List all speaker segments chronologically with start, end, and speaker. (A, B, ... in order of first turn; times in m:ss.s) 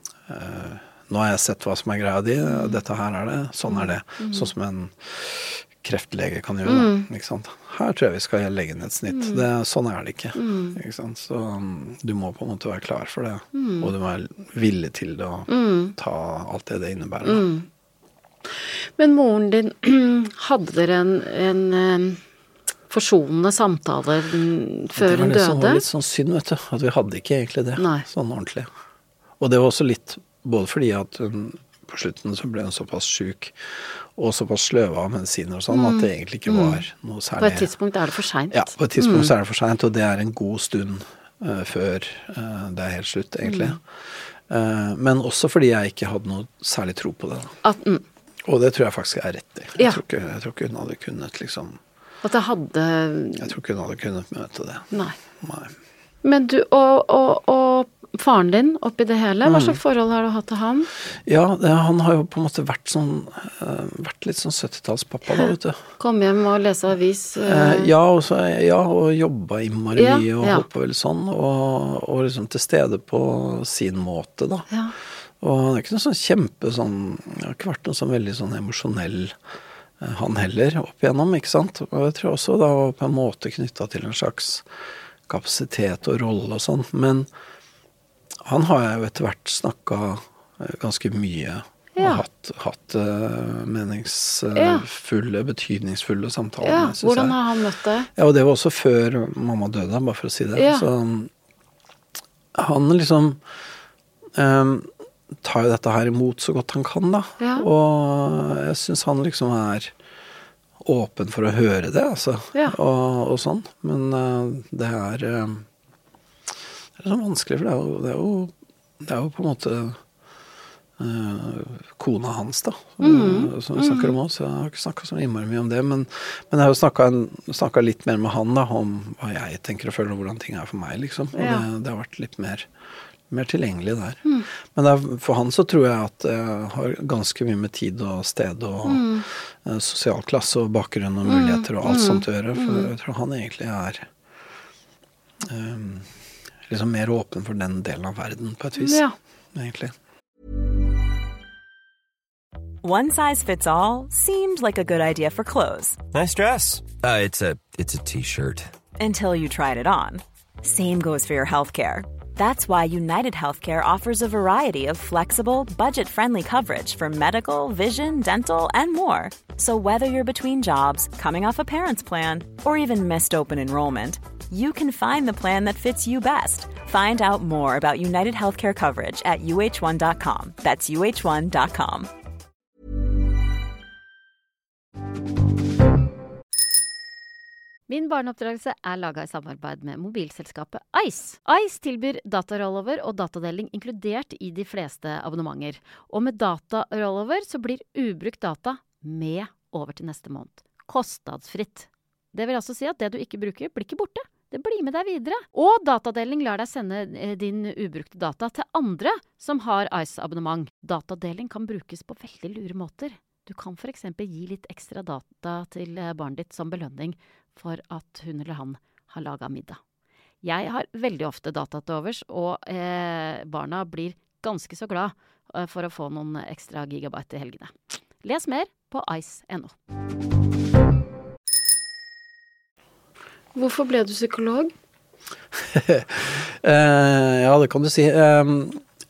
0:00.3-0:17.4 A
0:02.5-0:02.8 B
0:03.7-0:04.5 B
0:06.6-0:07.0 B
0:09.1-0:09.4 B
0:10.4-0:10.8 B
0:13.5-0:13.9 B
0:15.5-0:15.9 B
0:17.2-0:17.6 B
0:19.0-0:22.2 B
0:22.9-0:25.8 B
0:25.0-0:28.7 A
0:27.8-0:28.0 B
0:29.4-0:37.7 A
0:35.7-0:36.8 B
0:37.4-0:39.3 B
0:38.5-0:47.5 A
0:43.4-0:43.8 B
0:47.6-0:48.0 B
0:48.4-0:51.8 A
0:52.2-0:53.5 B
0:53.4-0:55.7 A
0:56.2-1:00.9 B
0:59.4-0:59.8 A
1:01.2-1:05.8 A
1:05.3-1:07.9 B
1:07.4-1:14.7 A
1:10.0-1:10.6 B
1:15.4-1:19.4 A
1:20.0-1:24.6 A
1:25.3-1:27.3 A
1:28.4-1:37.4 A
1:32.0-1:32.2 B
1:34.5-1:34.8 B
1:36.6-1:38.1 B
1:38.2-1:41.3 A
1:40.6-1:40.8 B
1:42.5-1:43.4 A
1:44.4-1:49.9 A
1:47.4-1:47.7 B
1:50.8-1:55.6 A
1:57.0-2:00.0 A
2:01.0-2:12.7 A
2:03.0-2:04.1 B
2:11.3-2:11.6 B
2:13.3-2:24.1 A
2:18.8-2:19.2 B
2:21.2-2:22.9 B
2:25.4-2:26.1 A
2:26.7-2:29.0 A
2:28.8-2:29.1 B
2:29.5-2:29.9 A
2:32.8-2:36.0 C
2:36.1-2:38.7 D
2:39.0-3:02.1 C
3:07.9-3:39.8 B
3:40.4-3:47.7 B
3:48.2-3:49.8 B
3:53.5-3:54.7 B
3:55.5-3:58.8 A